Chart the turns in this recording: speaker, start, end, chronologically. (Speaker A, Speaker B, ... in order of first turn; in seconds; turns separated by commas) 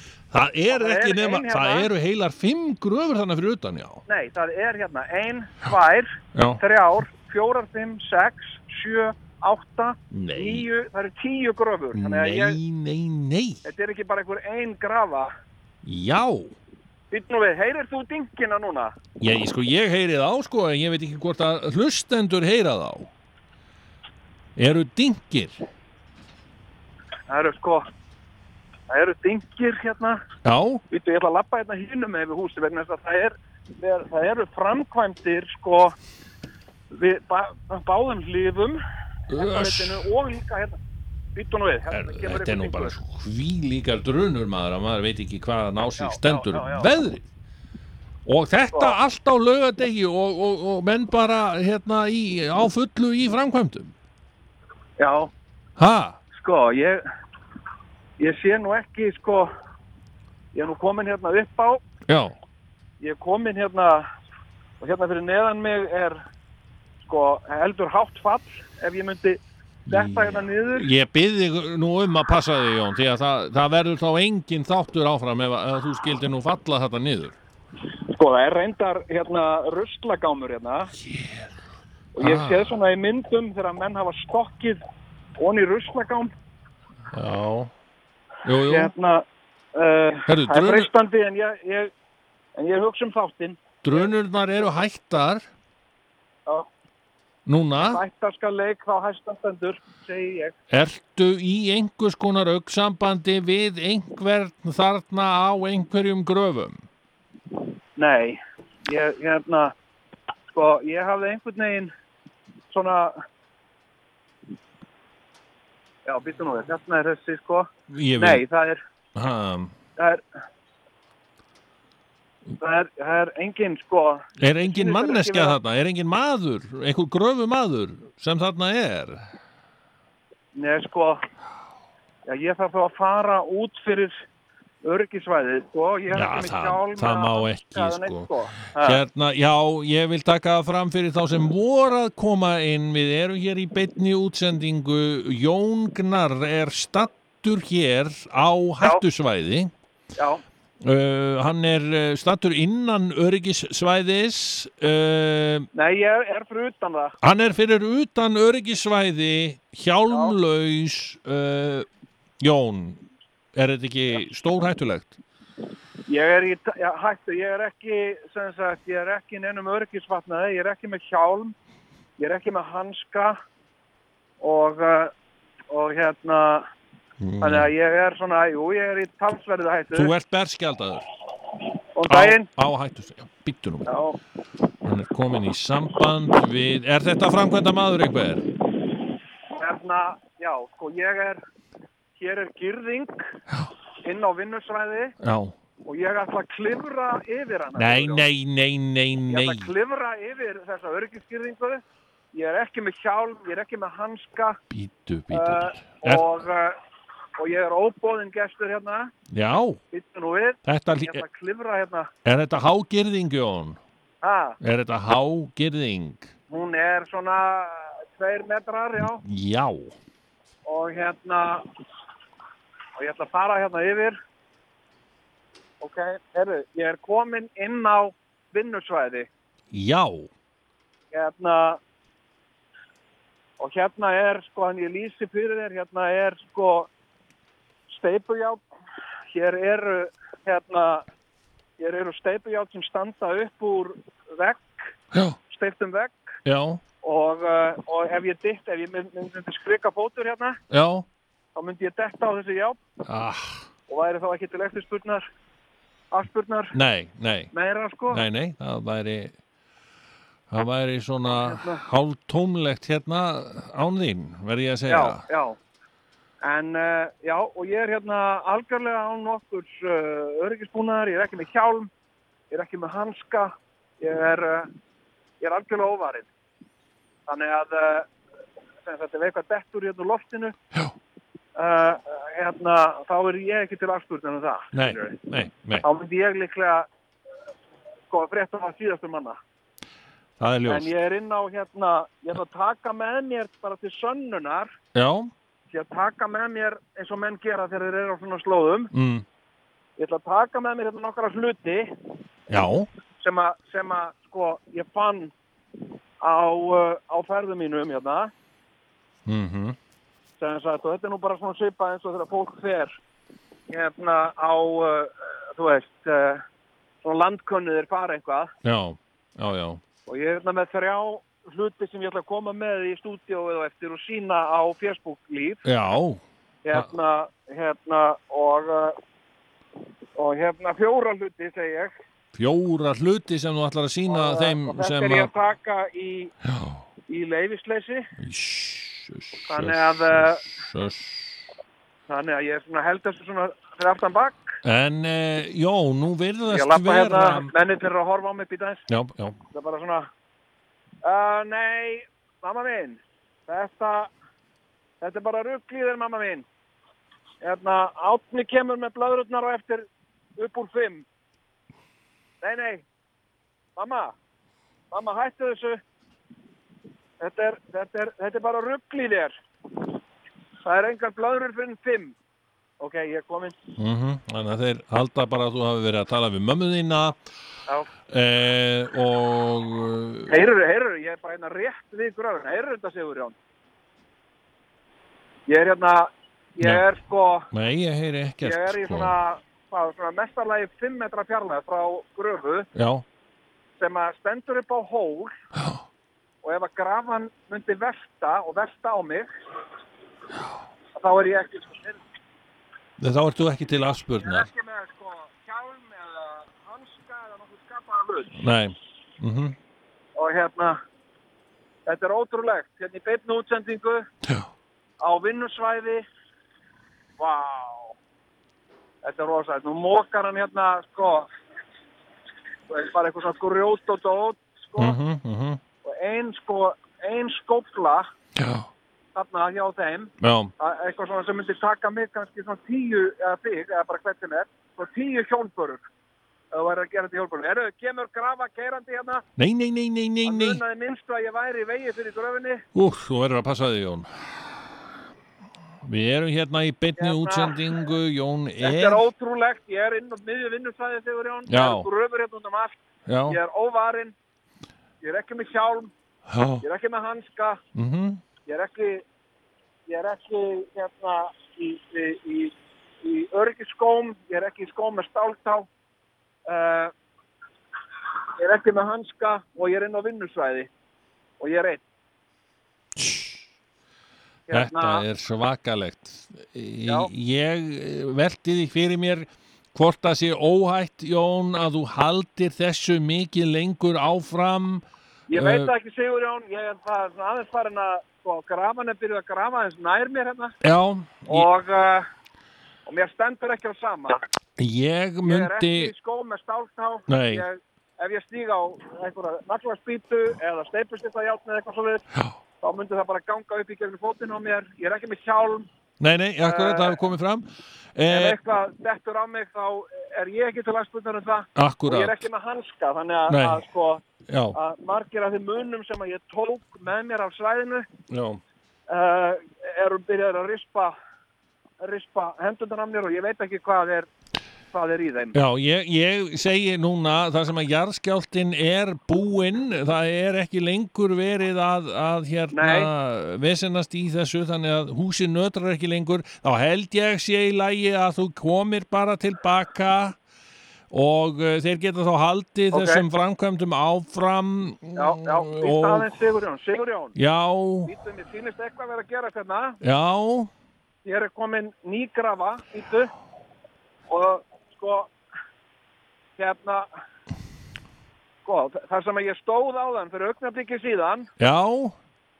Speaker A: 0.3-4.0, Speaker B: 0.7-1.9, Speaker B: 4.1-12.6, Speaker A: 6.3-6.6, Speaker A: 10.1-10.7, Speaker A: 11.9-13.6, Speaker B: 13.7-15.3, Speaker A: 15.8-16.6, Speaker B: 17.1-18.9, Speaker A: 19.2-23.1, Speaker A: 24.6-25.6, Speaker B: 27.3-27.9, Speaker B: 28.9-30.2, Speaker A: 30.4-30.8, Speaker B: 30.9-36.0, Speaker B: 36.9-38.8, Speaker A: 39.3-40.0, Speaker B: 39.3-40.8, Speaker B: 41.4-43.0, Speaker A: 41.9-47.3, Speaker B: 46.0-46.9, Speaker A: 48.3-53.9, Speaker B: 55.0-55.3, Speaker A: 55.8-56.2, Speaker B: 56.4-57.0, Speaker B: 58.2-59.5, Speaker B: 60.5-61.8, Speaker A: 62.1-62.4, Speaker B: 63.0-64.1, Speaker B: 64.8-66.2, Speaker B: 67.1-70.9, Speaker A: 69.9-77.4, Speaker B: 78.1-80.9, Speaker A: 81.0-81.5, Speaker B: 82.2-84.8, Speaker A: 82.2-82.8, Speaker B: 85.4-86.3, Speaker A: 87.1-87.7, Speaker A: 88.5-88.9, Speaker B: 88.7-91.9, Speaker A: 90.3-90.9, Speaker B: 92.6-94.1, Speaker A: 93.8-95.5, Speaker A: 97.5-98.0, Speaker B: 97.8-100.5, Speaker A: 100.7-106.8, Speaker B: 108.0-109.7, Speaker B: 110.5-111.9, Speaker B: 112.7-113.2, Speaker B: 116.0-118.8, Speaker A: 117.9-118.4, Speaker A: 119.2-119.8, Speaker B: 120.0-120.2, Speaker B: 122.6-125.6, Speaker A: 124.4-129.3, Speaker B: 130.6-131.2, Speaker B: 132.3-134.2, Speaker B: 134.8-139.0, Speaker A: 136.1-149.7, Speaker B: 150.2-150.4, Speaker A: 150.8-155.7, Speaker B: 155.7-157.1, Speaker A: 157.2-161.9, Speaker A: 162.4-165.2, Speaker B: 166.1-171.5, Speaker B: 172.2-173.4, Speaker B: 174.4-175.1, Speaker B: 175.7-176.7, Speaker A: 177.2-177.7, Speaker B: 177.4-180.1, Speaker A: 179.9-181.1, Speaker B: 181.9-182.5, Speaker A: 182.1-183.9, Speaker B: 183.9-184.2, Speaker A: 184.8-188.5, Speaker B: 189.5-191.4, Speaker B: 192.2-193.3, Speaker B: 194.0-195.1, Speaker A: 195.2-195.6, Speaker B: 195.8-198.3, Speaker A: 197.8-199.7, Speaker B: 199.3-201.8, Speaker B: 202.3-204.6, Speaker A: 204.7-206.4, Speaker B: 205.3-206.8, Speaker B: 207.4-209.1, Speaker A: 209.3-209.8, Speaker B: 209.9-212.1, Speaker A: 210.7-211.2, Speaker A: 212.2-213.8, Speaker B: 214.2-214.6, Speaker A: 214.6-216.3, Speaker B: 216.5-219.2, Speaker A: 219.0-220.0, Speaker B: 220.7-221.7, Speaker B: 223.0-224.2, Speaker B: 225.8-229.3, Speaker A: 229.7-230.3, Speaker B: 231.1-231.8, Speaker B: 233.6-236.9, Speaker B: 237.9-238.6, Speaker B: 239.3-241.1, Speaker B: 241.8-244.9, Speaker B: 245.5-246.2, Speaker A: 246.5-246.8, Speaker B: 247.0-250.6, Speaker A: 250.7-251.1, Speaker B: 251.6-252.8, Speaker A: 253.1-253.7, Speaker B: 253.9-255.3, Speaker B: 256.1-256.8, Speaker A: 256.7-257.5, Speaker B: 257.5-258.2, Speaker A: 258.1-259.4, Speaker A: 260.5-265.2, Speaker B: 261.3-261.8, Speaker B: 264.9-265.6, Speaker B: 266.4-271.9, Speaker B: 272.5-274.7, Speaker B: 275.4-276.3, Speaker B: 277.3-278.1, Speaker B: 278.9-280.6, Speaker B: 281.6-285.2, Speaker A: 284.7-285.9, Speaker B: 285.8-286.9, Speaker B: 288.1-289.4, Speaker A: 290.4-290.9, Speaker B: 290.7-294.7, Speaker A: 294.9-295.3, Speaker B: 295.7-298.9, Speaker A: 298.9-299.3, Speaker B: 300.0-301.9, Speaker A: 302.5-302.9, Speaker B: 303.2-305.3, Speaker B: 306.2-308.3, Speaker A: 309.3-309.8, Speaker B: 310.4-312.9, Speaker B: 313.7-316.4, Speaker B: 317.0-318.5, Speaker A: 318.6-319.8, Speaker B: 320.1-325.6, Speaker A: 325.6-326.9, Speaker B: 326.6-329.0, Speaker B: 330.2-331.9, Speaker A: 332.4-335.3, Speaker B: 334.1-336.3, Speaker A: 336.5-336.8, Speaker B: 337.1-338.1, Speaker A: 338.2-341.5, Speaker B: 339.5-340.4, Speaker B: 342.1-344.4, Speaker A: 344.6-347.5, Speaker B: 346.5-348.8, Speaker A: 348.9-349.4, Speaker B: 349.5-350.1, Speaker B: 351.0-354.1, Speaker B: 355.0-356.5, Speaker B: 357.4-359.9, Speaker B: 360.4-361.1, Speaker B: 362.4-362.9, Speaker B: 363.8-364.1, Speaker B: 364.9-365.8, Speaker B: 367.2-369.9, Speaker B: 370.6-372.1, Speaker B: 372.8-373.6, Speaker A: 373.8-377.2, Speaker A: 378.1-380.5, Speaker B: 380.3-383.4, Speaker B: 385.5-387.5, Speaker A: 387.5-389.2, Speaker B: 388.4-392.7, Speaker A: 392.8-393.0, Speaker B: 393.8-395.3, Speaker B: 396.4-399.3, Speaker B: 400.9-402.0, Speaker A: 403.0-404.5, Speaker B: 404.2-408.4, Speaker A: 408.4-409.6, Speaker B: 410.2-410.8, Speaker B: 411.9-414.1, Speaker B: 415.0-416.1, Speaker B: 417.2-417.9, Speaker B: 419.0-421.3, Speaker B: 422.7-425.0, Speaker A: 424.8-425.6, Speaker B: 425.8-428.1, Speaker A: 428.4-428.7, Speaker B: 429.1-435.8, Speaker A: 430.2-430.5, Speaker B: 436.5-439.2, Speaker A: 439.4-440.6, Speaker B: 440.2-442.6, Speaker A: 442.8-444.6, Speaker A: 445.8-449.1, Speaker B: 447.0-447.7, Speaker B: 448.6-452.8, Speaker A: 451.5-451.9, Speaker A: 453.1-453.4, Speaker B: 453.3-454.1, Speaker B: 455.0-455.9, Speaker A: 456.3-456.6, Speaker B: 456.6-457.6, Speaker A: 457.8-458.2, Speaker B: 458.5-459.0, Speaker B: 459.9-465.7, Speaker B: 466.5-466.9, Speaker B: 468.4-470.7, Speaker B: 471.4-471.8, Speaker A: 473.0-473.5, Speaker B: 474.5-475.0, Speaker A: 474.5-485.7, Speaker B: 485.3-490.5, Speaker A: 490.6-491.5, Speaker B: 491.3-492.1, Speaker B: 492.9-494.2, Speaker A: 494.6-495.9, Speaker B: 495.3-502.1, Speaker A: 497.1-497.5, Speaker B: 502.6-505.7, Speaker A: 506.0-508.4, Speaker B: 506.4-507.0, Speaker B: 508.1-514.0, Speaker A: 511.6-512.2, Speaker A: 513.3-513.6, Speaker A: 514.3-514.6, Speaker B: 514.5-517.9, Speaker A: 518.1-518.4, Speaker B: 518.9-521.0, Speaker B: 521.8-524.1, Speaker B: 524.7-525.4, Speaker A: 525.3-540.2, Speaker B: 532.5-532.9, Speaker A: 540.9-546.2, Speaker B: 542.7-543.0, Speaker B: 545.0-547.1, Speaker A: 547.2-547.9, Speaker B: 547.9-549.8, Speaker A: 549.8-550.5, Speaker B: 551.0-553.1, Speaker B: 554.1-555.1, Speaker B: 556.4-556.9, Speaker B: 558.5-561.3, Speaker A: 561.4-562.0